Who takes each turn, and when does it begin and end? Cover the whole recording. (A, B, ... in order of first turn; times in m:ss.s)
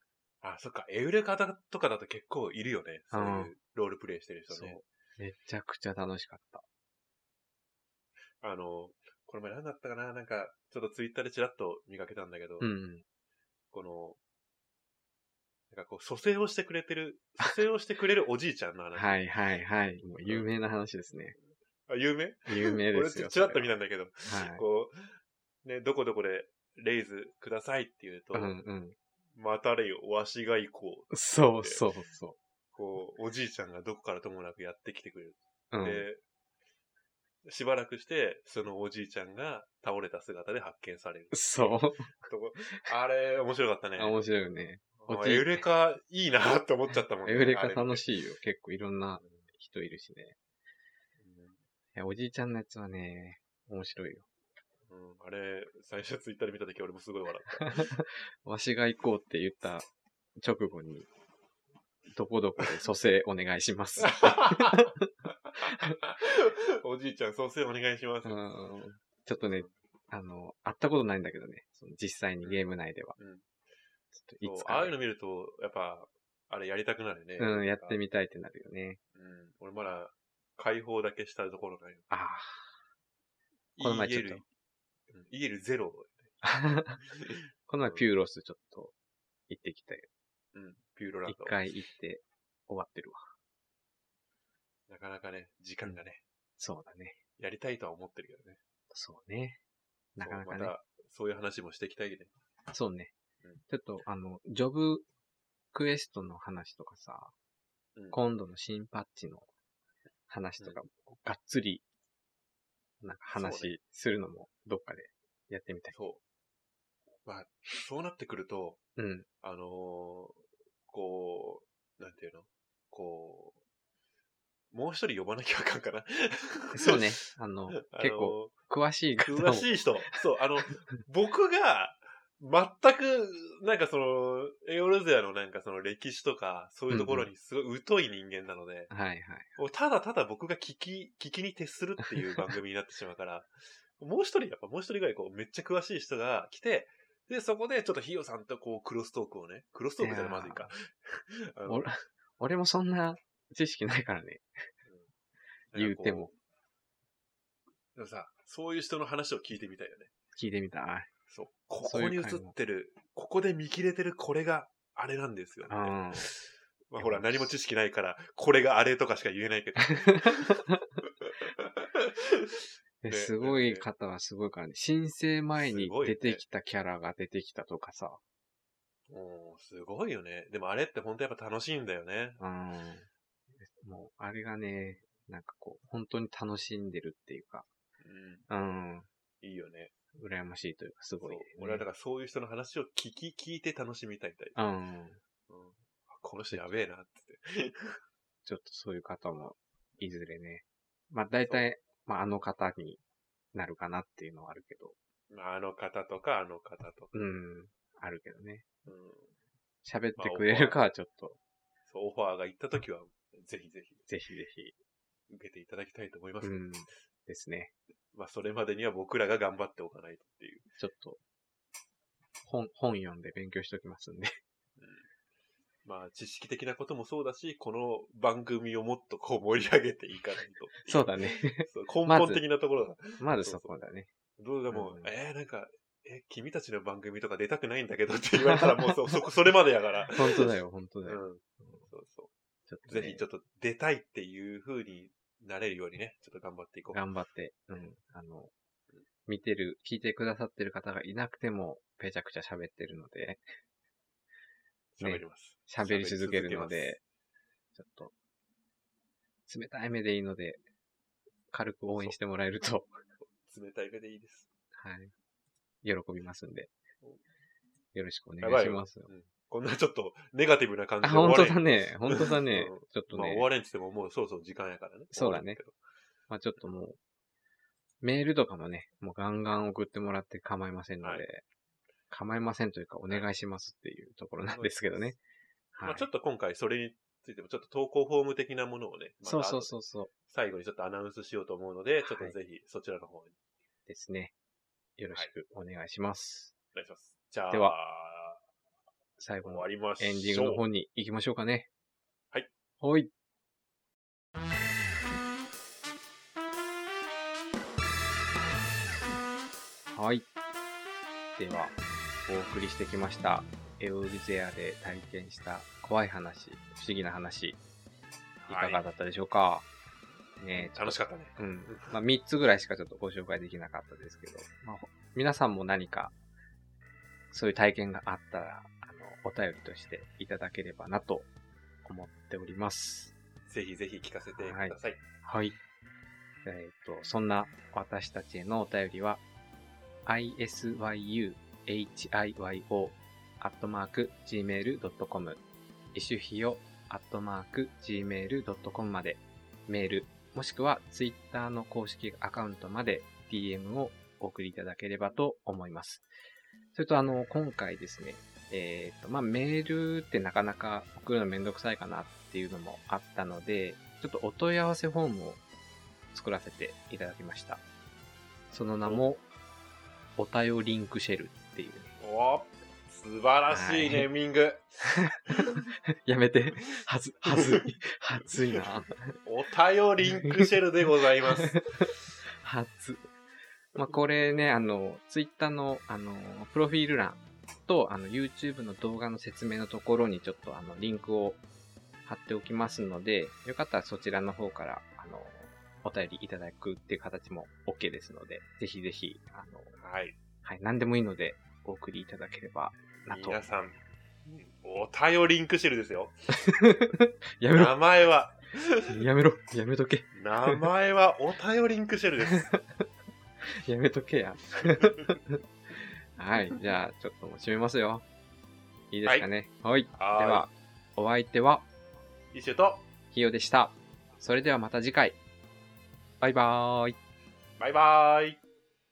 0:00.4-0:04.8 A
0:03.1-0:03.5 B
0:04.5-0:06.6 B
0:08.4-0:12.7 A
0:12.6-0:13.0 B
0:13.7-0:14.2 A
0:15.7-0:19.2 A
0:18.9-0:21.4 B
0:21.9-0:28.6 A
0:22.5-0:23.7 B
0:24.2-0:24.6 B
0:28.3-0:29.0 B
0:29.4-0:31.9 A
0:31.1-0:32.4 B
0:32.8-0:36.2 A
0:35.7-0:36.1 B
0:37.4-0:44.2 A
0:41.3-0:42.1 B
0:44.0-0:45.6 B
0:45.0-0:48.1 A
0:47.2-0:50.4 B
0:51.2-0:51.6 A
0:52.0-0:54.3 B
0:54.9-0:57.9 A
0:57.7-1:01.1 B
1:02.1-1:05.1 B
1:04.0-1:04.9 A
1:05.4-1:08.4 A
1:05.6-1:05.9 B
1:08.2-1:13.2 B
1:09.4-1:09.7 A
1:13.2-1:13.4 A
1:14.1-1:15.0 B
1:14.4-1:18.0 A
1:17.4-1:19.0 B
1:19.1-1:22.1 A
1:22.1-1:22.7 B
1:23.8-1:24.4 A
1:23.8-1:24.4 B
1:25.1-1:26.4 A
1:26.4-1:27.0 B
1:27.1-1:28.1 A
1:27.7-1:29.0 B
1:29.5-1:30.1 B
1:30.5-1:31.6 A
1:31.3-1:33.2 B
1:34.9-1:36.2 A
1:36.6-1:37.2 B
1:37.4-1:38.6 A
1:38.9-1:39.6 B
1:40.2-1:40.7 B
1:40.2-1:42.3 A
1:42.7-1:43.1 B
1:43.7-1:45.0 B
1:45.7-1:47.3 B
1:48.0-1:48.2 A
1:48.1-1:49.5 B
1:50.3-1:51.8 B
1:53.0-1:56.0 B
1:53.3-1:53.8 A
1:55.9-1:56.2 A
1:57.3-1:58.8 A
1:59.0-1:59.3 B
1:59.4-2:03.6 A
2:04.7-2:07.0 A
2:06.8-2:09.8 B
2:07.8-2:08.5 A
2:09.2-2:18.9 A
2:16.9-2:17.3 B
2:18.9-2:19.5 B
2:19.6-2:31.9 A
2:30.0-2:30.7 B
2:31.7-2:34.5 B
2:35.7-2:36.3 A
2:35.8-2:36.3 B
2:38.0-2:40.1 A
2:40.4-2:41.1 B
2:41.3-2:50.7 A
2:41.8-2:42.5 B
2:45.6-2:46.3 B
2:47.0-2:47.5 B
2:49.8-2:50.8 B
2:51.2-2:52.6 A
2:53.0-2:58.2 B
2:53.1-2:53.9 A
2:55.6-2:56.4 A
2:59.1-3:02.4 A
3:02.4-3:03.1 B
3:03.6-3:07.7 B
3:08.0-3:08.5 A
3:08.5-3:09.1 B
3:09.4-3:09.9 A
3:10.2-3:11.8 B
3:11.2-3:14.6 A
3:14.6-3:15.2 B
3:15.5-3:18.0 A
3:18.4-3:23.0 B
3:23.5-3:25.0 B
3:25.3-3:27.1 A
3:27.1-3:28.6 B
3:28.8-3:29.3 A
3:29.8-3:31.4 B
3:30.2-3:30.8 A
3:31.9-3:34.1 A
3:34.1-3:34.8 B
3:35.3-3:36.6 A
3:36.4-3:37.7 B
3:38.1-3:40.7 A
3:40.8-3:41.2 B
3:42.4-3:44.4 B
3:44.8-3:45.1 A
3:45.8-3:53.7 A
3:50.9-3:52.4 B
3:53.2-3:54.1 B
3:54.4-4:02.3 A
3:54.7-3:55.1 B
3:58.6-3:59.1 B
4:00.2-4:01.8 B
4:02.7-4:03.2 B
4:02.9-4:07.0 A
4:06.9-4:08.5 B
4:09.3-4:13.4 B
4:15.0-4:17.0 A
4:15.0-4:17.0 B
4:17.8-4:18.1 B
4:19.5-4:20.6 B
4:21.5-4:23.0 B
4:23.2-4:24.5 A
4:24.7-4:25.1 B
4:25.8-4:26.7 B
4:27.9-4:29.1 B
4:28.4-4:35.8 A
4:31.0-4:33.5 B
4:35.1-4:35.6 B
4:36.3-4:37.0 B
4:38.0-4:41.4 B
4:42.1-4:45.2 B
4:44.4-4:45.1 A
4:45.7-4:46.1 B
4:45.8-4:53.4 A
4:49.2-4:50.1 B
4:52.0-4:52.4 B
4:53.9-4:54.3 B
4:55.0-4:56.6 B
4:56.7-4:58.4 A
4:57.5-4:57.8 B
4:59.2-5:01.7 B
4:59.4-5:00.6 A
5:02.8-5:03.1 B
5:09.9-5:10.3 B
5:11.4-5:17.6 B
5:18.5-5:18.8 A
5:18.5-5:19.7 B
5:20.4-5:26.2 B
5:20.5-5:22.0 A
5:27.3-5:31.3 B
5:31.8-5:33.1 B
5:33.5-5:35.0 A
5:34.4-5:35.6 B
5:36.4-5:39.2 B
5:40.1-5:45.4 B
5:45.9-5:56.1 B
5:56.7-6:05.4 B
6:06.1-6:07.6 B
6:08.5-6:09.2 B
6:10.2-6:11.9 B
6:12.0-6:14.7 A
6:13.5-6:14.1 B
6:15.0-6:19.2 B
6:15.3-6:15.6 A
6:17.3-6:17.6 A
6:19.2-6:21.6 A
6:20.0-6:20.5 B
6:21.4-6:23.1 B
6:23.8-6:31.4 B
6:32.1-6:39.8 B
6:39.8-6:40.2 A
6:40.4-6:43.4 B
6:43.0-6:46.2 A
6:46.3-6:47.8 B
6:47.5-6:49.0 A
6:48.9-6:50.6 B
6:50.2-6:52.6 A
6:52.3-6:52.9 B
6:53.5-6:55.4 B
6:56.2-6:58.0 B
6:58.9-7:01.7 B
7:00.0-7:00.5 A
7:02.3-7:02.8 A
7:03.1-7:05.2 B
7:06.2-7:07.0 B
7:07.6-7:08.4 A